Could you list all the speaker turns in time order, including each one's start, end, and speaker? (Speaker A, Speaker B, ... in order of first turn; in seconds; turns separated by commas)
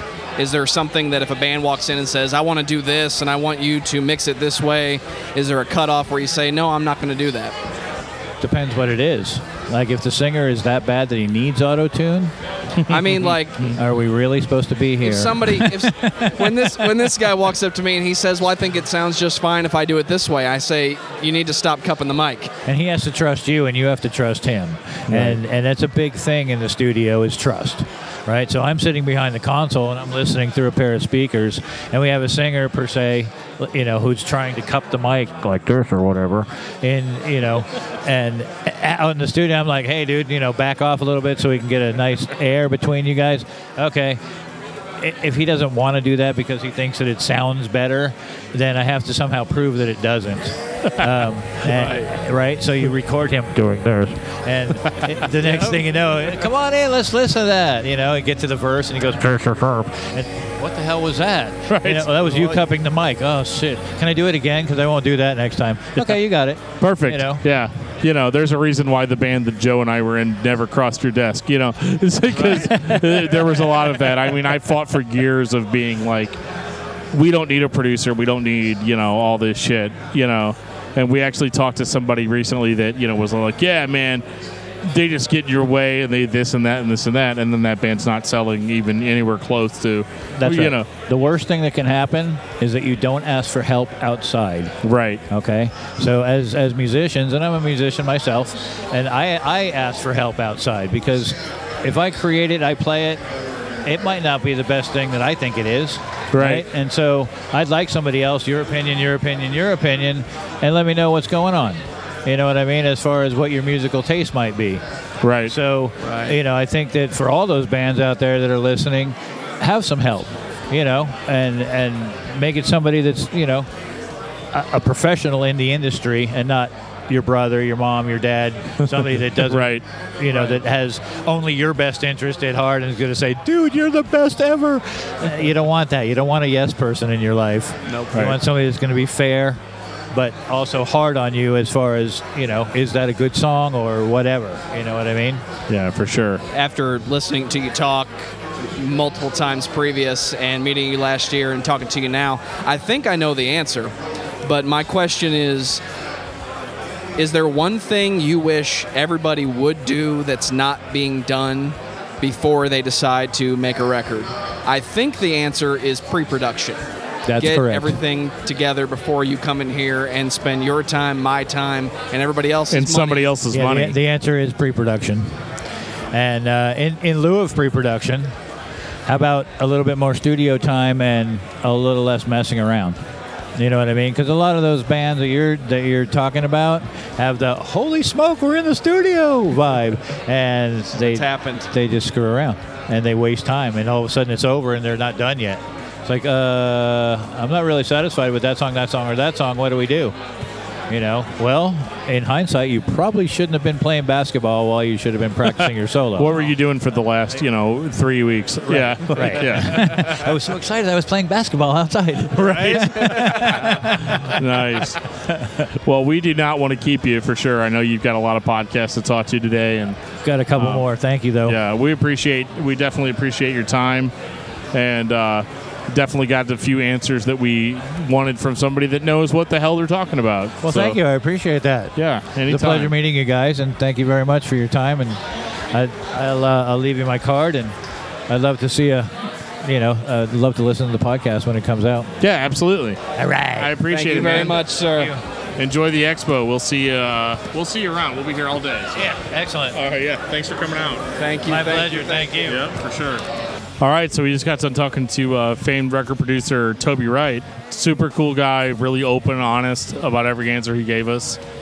Speaker A: 0.4-7.6, Speaker B: 8.4-12.3, Speaker C: 12.9-13.7, Speaker A: 12.9-13.8, Speaker B: 13.8-16.7, Speaker A: 15.0-22.5, Speaker B: 22.6-44.2, Speaker C: 25.1-25.4, Speaker B: 45.0-67.4, Speaker C: 51.7-52.0, Speaker C: 61.7-62.6, Speaker C: 66.8-76.4, Speaker C: 77.1-84.2, Speaker C: 84.8-90.9, Speaker B: 90.4-94.8, Speaker C: 94.8-95.2, Speaker B: 95.3-103.2, Speaker B: 103.8-114.8, Speaker C: 106.3-106.6, Speaker C: 115.2-115.5, Speaker B: 115.5-123.7, Speaker A: 116.0-116.3, Speaker B: 124.5-139.6, Speaker C: 129.4-129.8, Speaker A: 137.9-138.2, Speaker C: 138.1-138.4, Speaker B: 140.1-145.4, Speaker C: 145.7-146.4, Speaker A: 146.5-155.8, Speaker A: 157.2-166.8, Speaker B: 167.2-168.0, Speaker A: 167.4-173.3, Speaker C: 172.7-174.0, Speaker B: 173.5-175.3, Speaker B: 176.1-178.3, Speaker B: 179.1-183.0, Speaker B: 183.6-200.2, Speaker A: 190.9-191.7, Speaker B: 200.9-206.4, Speaker C: 206.2-210.3, Speaker B: 208.7-214.4, Speaker C: 212.3-215.0, Speaker B: 215.3-215.6, Speaker C: 215.8-220.0, Speaker B: 220.2-221.6, Speaker C: 220.6-220.8, Speaker C: 221.4-224.1, Speaker C: 224.7-231.0, Speaker B: 230.6-231.9, Speaker C: 231.9-232.9, Speaker B: 232.4-235.2, Speaker B: 235.7-237.7, Speaker B: 238.3-242.1, Speaker C: 242.2-243.0, Speaker B: 243.1-245.2, Speaker C: 243.6-244.6, Speaker A: 243.9-245.1, Speaker C: 245.6-249.0, Speaker B: 248.9-249.8, Speaker C: 249.7-251.1, Speaker A: 251.2-252.4, Speaker B: 251.5-252.6, Speaker C: 252.4-253.2, Speaker C: 253.8-261.4